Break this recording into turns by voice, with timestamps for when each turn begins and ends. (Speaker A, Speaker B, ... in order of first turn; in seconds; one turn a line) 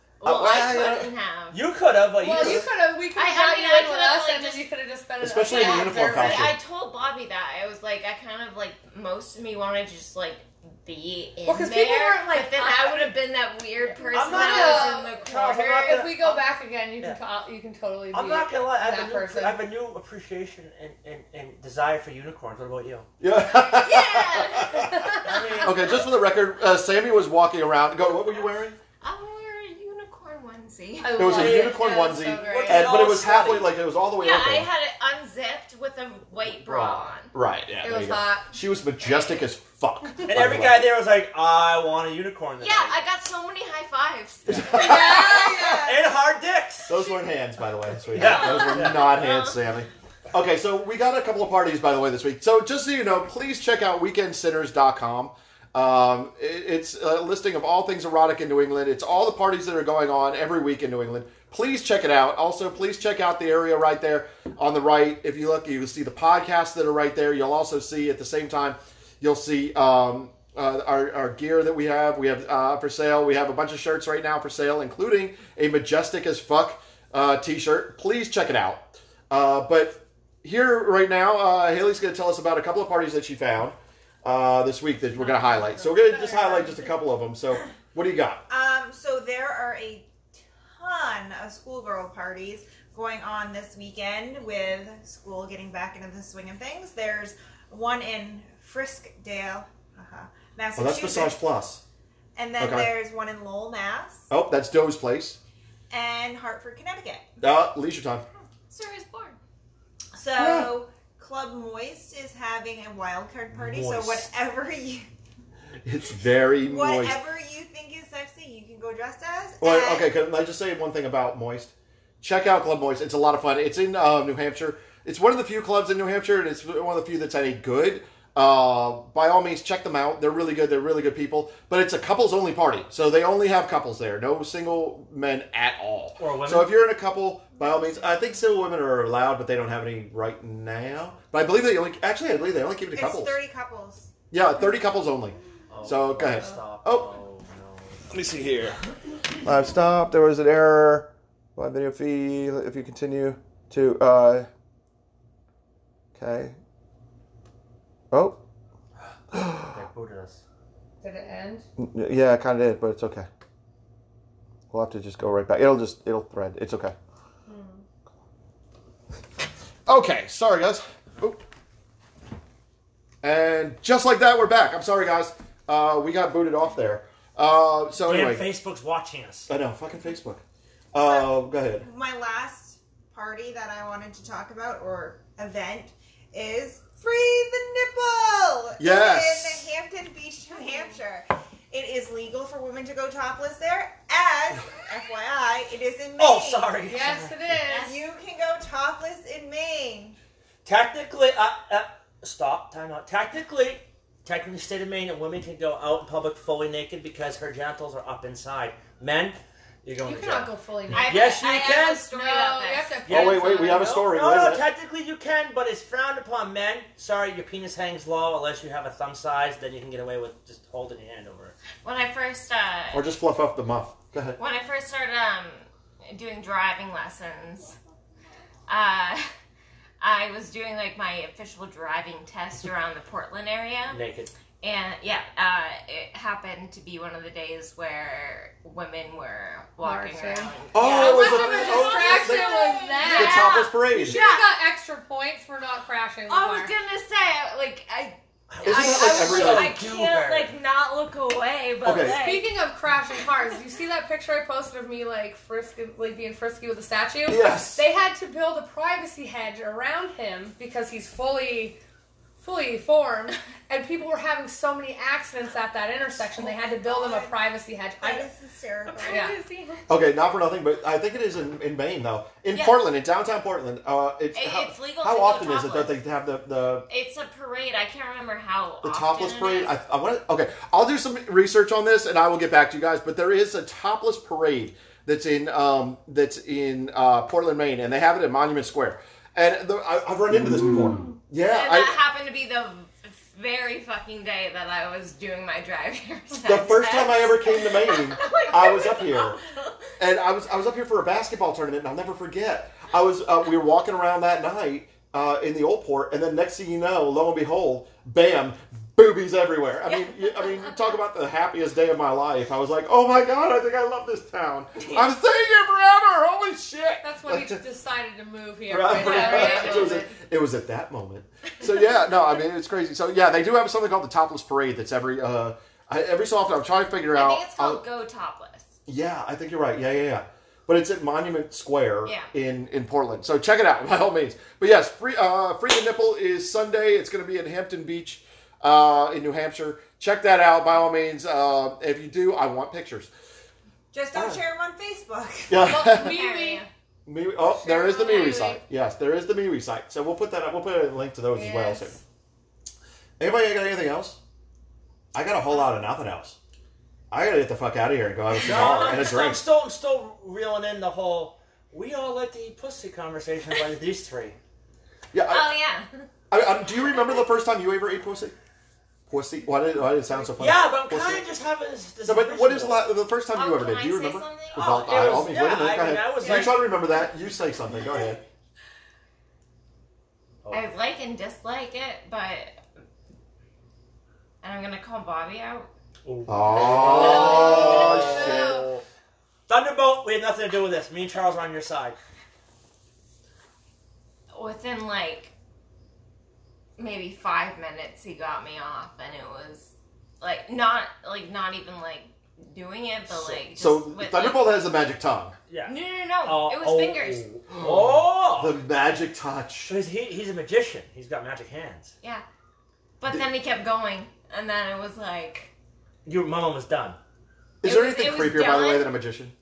Speaker A: 0.2-1.6
Speaker B: 0.2-1.1
Speaker C: 1.5-2.7
Speaker D: 2.2-6.5
Speaker B: 2.4-2.6
Speaker A: 3.1-4.7
Speaker B: 5.2-6.6
Speaker A: 5.5-16.1
Speaker D: 11.5-13.1
Speaker D: 13.9-15.2
Speaker C: 14.1-16.4
Speaker D: 15.8-19.6
Speaker C: 18.1-23.1
Speaker B: 23.2-28.8
Speaker A: 23.7-24.9
Speaker D: 24.9-25.2
Speaker C: 25.2-25.9
Speaker A: 29.0-31.6
Speaker D: 31.0-32.9
Speaker B: 31.1-34.7
Speaker C: 31.3-33.7
Speaker A: 34.2-37.3
Speaker B: 36.6-40.9
Speaker D: 37.8-38.5
Speaker A: 39.0-39.4
Speaker C: 40.2-43.0
Speaker A: 42.6-45.1
Speaker B: 44.5-45.7
Speaker D: 44.8-45.8
Speaker E: 44.9-46.1
Speaker C: 45.7-46.9
Speaker B: 46.9-88.4
Speaker C: 48.1-49.1
Speaker A: 48.1-49.6
Speaker D: 85.2-86.9
Speaker E: 88.5-101.4
Speaker B: 100.8-101.8
Speaker E: 102.4-104.3
Speaker B: 102.6-102.9
Speaker B: 104.3-105.4
Speaker E: 105.9-107.3
Speaker B: 107.4-108.2
Speaker A: 108.7-109.4
Speaker E: 110.1-115.1
Speaker B: 110.3-110.7
Speaker C: 113.5-114.3
Speaker B: 115.8-117.2
Speaker E: 116.6-120.1
Speaker B: 119.6-143.4
Speaker C: 136.2-136.8
Speaker E: 142.9-144.1
Speaker B: 144.3-147.1
Speaker C: 145.7-148.1
Speaker B: 148.1-148.8
Speaker B: 149.4-154.5
Speaker B: 156.1-156.6
Speaker B: 158.1-158.4
Speaker B: 159.3-159.8
Speaker C: 159.6-160.4
Speaker D: 161.0-161.7
Speaker B: 161.8-163.3
Speaker B: 164.7-166.9
Speaker D: 167.5-167.8
Speaker B: 169.9-171.4
Speaker B: 173.2-178.4
Speaker C: 178.0-179.5
Speaker B: 179.5-180.4
Speaker B: 180.9-181.8
Speaker E: 181.0-196.8
Speaker B: 188.8-189.7
Speaker C: 196.2-197.6
Speaker D: 196.9-197.9
Speaker A: 197.6-198.1
Speaker E: 197.8-200.2
Speaker C: 200.6-212.1
Speaker D: 210.0-211.2
Speaker A: 210.9-213.0
Speaker D: 212.1-213.9
Speaker C: 213.1-221.6
Speaker B: 213.1-214.6
Speaker A: 221.8-223.1
Speaker B: 222.9-224.4
Speaker A: 224.4-227.8
Speaker A: 228.7-229.3
Speaker A: 230.0-234.0
Speaker C: 233.9-234.3
Speaker A: 234.6-244.5
Speaker D: 239.8-246.7
Speaker B: 240.7-244.2
Speaker A: 246.3-252.5
Speaker C: 248.5-250.5
Speaker B: 248.6-249.8
Speaker B: 251.8-252.2
Speaker D: 252.2-261.8
Speaker B: 257.3-257.8
Speaker D: 262.4-268.3
Speaker E: 266.3-267.4
Speaker E: 268.0-269.4
Speaker D: 269.0-269.8
Speaker A: 269.1-269.3
Speaker B: 269.9-276.9
Speaker A: 272.5-272.8
Speaker A: 274.3-276.0
Speaker A: 276.9-279.7
Speaker B: 278.8-292.0
Speaker A: 291.5-299.7
Speaker B: 296.4-299.4
Speaker B: 300.0-317.6
Speaker A: 309.9-310.3
Speaker D: 317.0-320.1
Speaker B: 318.7-327.8
Speaker A: 318.9-320.0
Speaker A: 327.1-328.7
Speaker B: 328.9-343.1
Speaker A: 332.1-332.3
Speaker E: 343.9-345.8
Speaker B: 344.1-344.4
Speaker B: 345.5-346.2
Speaker D: 345.7-346.6
Speaker A: 345.9-346.7
Speaker B: 347.1-352.0
Speaker D: 347.6-348.6
Speaker D: 351.3-352.0
Speaker B: 353.2-354.2
Speaker B: 355.1-356.4
Speaker B: 357.1-359.4
Speaker C: 358.4-364.4
Speaker B: 365.1-365.5
Speaker A: 365.3-366.1
Speaker B: 366.3-368.3
Speaker B: 369.1-371.2
Speaker C: 370.4-372.9
Speaker B: 372.1-378.2
Speaker A: 373.3-375.2
Speaker C: 374.6-376.7
Speaker C: 380.4-380.7
Speaker A: 380.5-382.6
Speaker A: 384.4-385.7
Speaker C: 386.1-388.4
Speaker B: 386.3-388.8
Speaker A: 386.7-388.4
Speaker D: 387.0-388.7
Speaker C: 389.5-392.0
Speaker A: 394.3-395.3
Speaker A: 396.8-404.6
Speaker C: 403.1-403.4
Speaker B: 403.5-405.3
Speaker C: 405.5-408.6
Speaker A: 405.7-407.3
Speaker B: 407.6-409.7
Speaker C: 409.6-411.9
Speaker A: 413.0-415.5
Speaker C: 416.1-417.0
Speaker B: 417.6-419.3
Speaker A: 417.6-418.9